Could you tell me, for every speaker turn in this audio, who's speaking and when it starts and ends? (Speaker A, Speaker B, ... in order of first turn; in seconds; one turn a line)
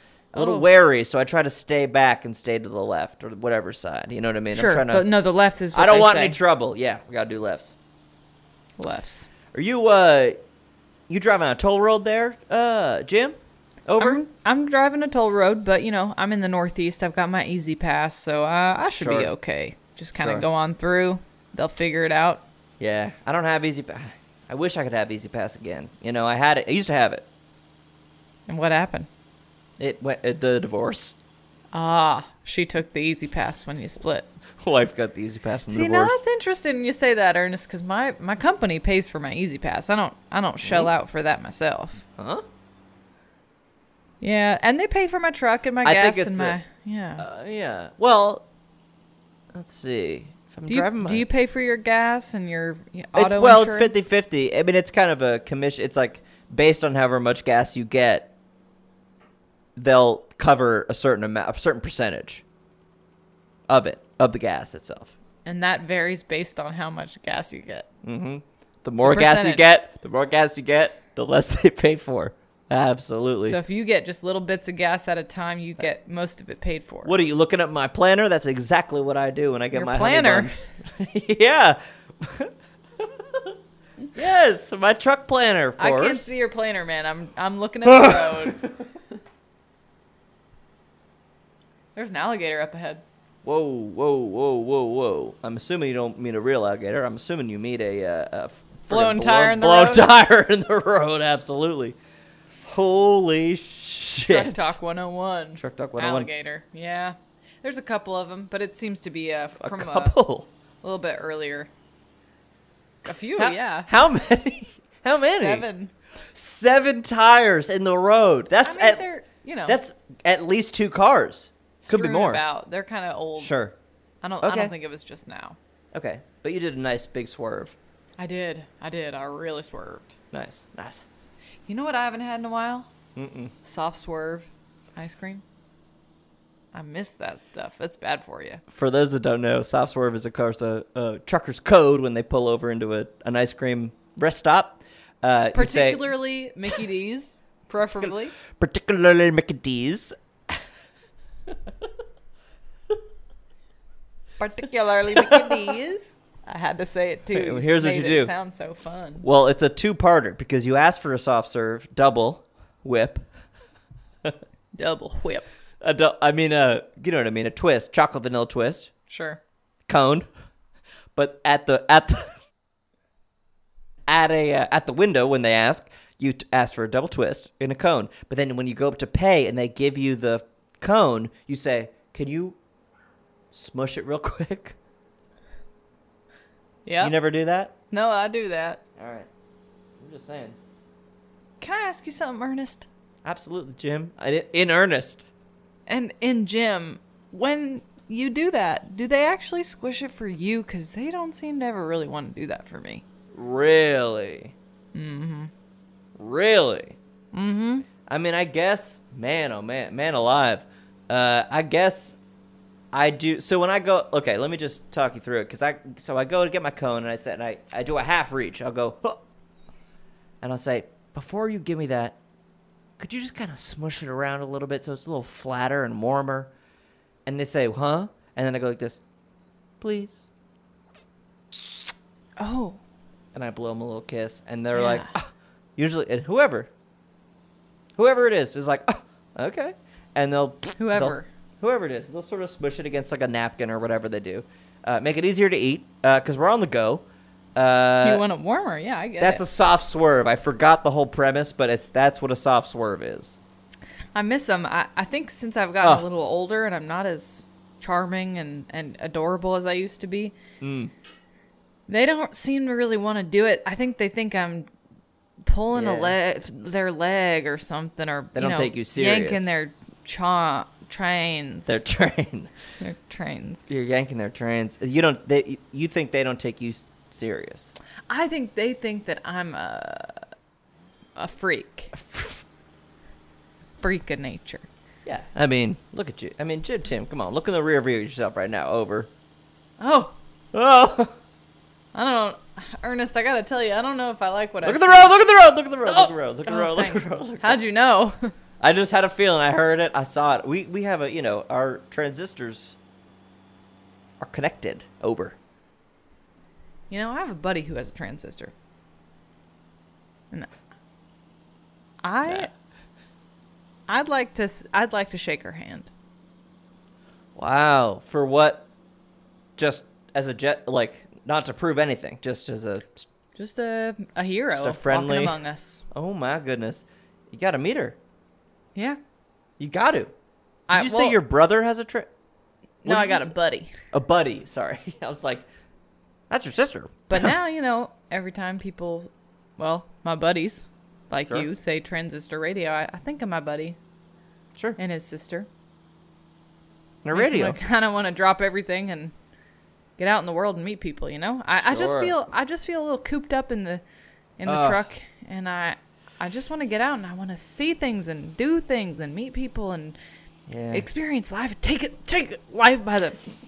Speaker A: 0.3-5.1
Speaker B: 0.3-0.7
Speaker B: 4.5-6.4
Speaker A: 5.7-7.8
Speaker B: 8.8-9.3
Speaker A: 9.5-10.4
Speaker A: 11.1-14.2
Speaker B: 14.0-22.4
Speaker A: 19.0-19.3
Speaker A: 20.2-20.5
Speaker A: 22.8-27.3
Speaker B: 28.5-29.1
Speaker A: 29.8-31.1
Speaker B: 31.7-34.3
Speaker A: 34.6-36.2
Speaker B: 35.7-42.0
Speaker A: 40.6-40.9
Speaker A: 42.2-42.5
Speaker B: 44.2-47.2
Speaker A: 45.8-46.6
Speaker A: 47.2-48.5
Speaker A: 49.5-51.3
Speaker B: 50.7-54.1
Speaker A: 53.1-58.3
Speaker A: 59.8-62.4
Speaker A: 63.7-65.1
Speaker B: 65.5-67.9
Speaker A: 68.0-73.6
Speaker B: 69.0-69.7
Speaker B: 73.4-77.1
Speaker A: 77.0-83.5
Speaker B: 79.7-80.6
Speaker A: 84.2-86.3
Speaker B: 85.8-88.7
Speaker A: 87.9-88.7
Speaker B: 92.0-93.0
Speaker A: 93.4-102.0
Speaker B: 98.9-100.1
Speaker A: 102.6-104.8
Speaker B: 104.2-110.2
Speaker A: 105.6-106.3
Speaker A: 109.6-110.5
Speaker B: 110.8-111.7
Speaker B: 113.0-113.9
Speaker A: 113.4-115.7
Speaker B: 115.3-115.9
Speaker A: 116.3-119.0
Speaker B: 118.6-119.8
Speaker A: 119.7-122.4
Speaker B: 121.8-123.5
Speaker A: 123.4-123.8
Speaker B: 124.2-125.6
Speaker A: 124.4-124.7
Speaker A: 125.9-127.8
Speaker B: 128.2-130.2
Speaker A: 130.3-131.0
Speaker B: 131.7-132.9
Speaker A: 133.2-133.5
Speaker B: 133.6-135.4
Speaker B: 136.7-138.6
Speaker A: 138.7-146.1
Speaker B: 145.5-148.4
Speaker A: 148.0-150.6
Speaker B: 154.4-159.2
Speaker A: 155.1-155.8
Speaker A: 157.3-158.3
Speaker A: 159.2-163.3
Speaker B: 164.8-165.5
Speaker A: 165.8-168.9
Speaker B: 169.1-169.4
Speaker A: 169.9-170.3
Speaker A: 171.2-172.3
Speaker A: 174.1-182.6
Speaker A: 183.5-184.8
Speaker B: 186.9-187.2
Speaker A: 187.0-187.7
Speaker B: 187.9-188.8
Speaker A: 189.0-189.3
Speaker A: 190.0-190.6
Speaker B: 191.6-192.9
Speaker A: 193.2-195.2
Speaker B: 195.9-203.0
Speaker A: 203.3-204.5
Speaker B: 204.9-205.5
Speaker A: 206.2-207.0
Speaker B: 207.3-207.9
Speaker A: 208.1-212.2
Speaker A: 212.9-219.2
Speaker A: 220.4-222.2
Speaker A: 223.0-226.5
Speaker A: 227.3-229.0
Speaker A: 229.8-230.3
Speaker B: 232.4-232.8
Speaker A: 233.3-236.7
Speaker B: 234.7-235.1
Speaker A: 238.0-247.1
Speaker B: 240.8-241.3
Speaker A: 247.6-248.2
Speaker B: 248.0-249.4
Speaker A: 249.2-253.4
Speaker B: 254.2-260.4
Speaker A: 260.6-260.9
Speaker B: 261.9-264.7
Speaker B: 265.5-271.8
Speaker A: 265.7-266.2
Speaker A: 268.4-269.6
Speaker A: 271.7-272.5
Speaker B: 272.8-273.7
Speaker A: 273.7-277.7
Speaker B: 278.1-280.2
Speaker B: 281.2-281.9
Speaker A: 281.9-282.4
Speaker B: 283.8-284.7
Speaker A: 285.1-289.1
Speaker B: 289.8-290.2
Speaker A: 290.5-291.1
Speaker B: 291.9-295.1
Speaker A: 294.6-297.6
Speaker B: 295.9-298.3
Speaker A: 298.6-302.8
Speaker A: 304.2-305.4
Speaker B: 306.9-308.5
Speaker B: 312.0-312.5
Speaker B: 313.9-315.9
Speaker A: 317.4-318.7
Speaker A: 319.6-323.1
Speaker B: 323.4-325.8
Speaker A: 324.5-325.4
Speaker A: 325.9-328.0
Speaker A: 329.6-330.1
Speaker B: 330.7-331.2
Speaker A: 330.7-332.1
Speaker B: 332.8-333.7
Speaker A: 332.9-333.3
Speaker A: 333.9-335.5
Speaker A: 336.3-337.3
Speaker B: 337.1-343.8
Speaker B: 344.8-345.5
Speaker A: 347.0-347.6
Speaker B: 347.1-349.1
Speaker B: 350.0-353.8
Speaker A: 351.6-352.1
Speaker B: 354.4-360.0
Speaker A: 354.5-354.8
Speaker A: 360.5-360.9
Speaker B: 360.7-363.2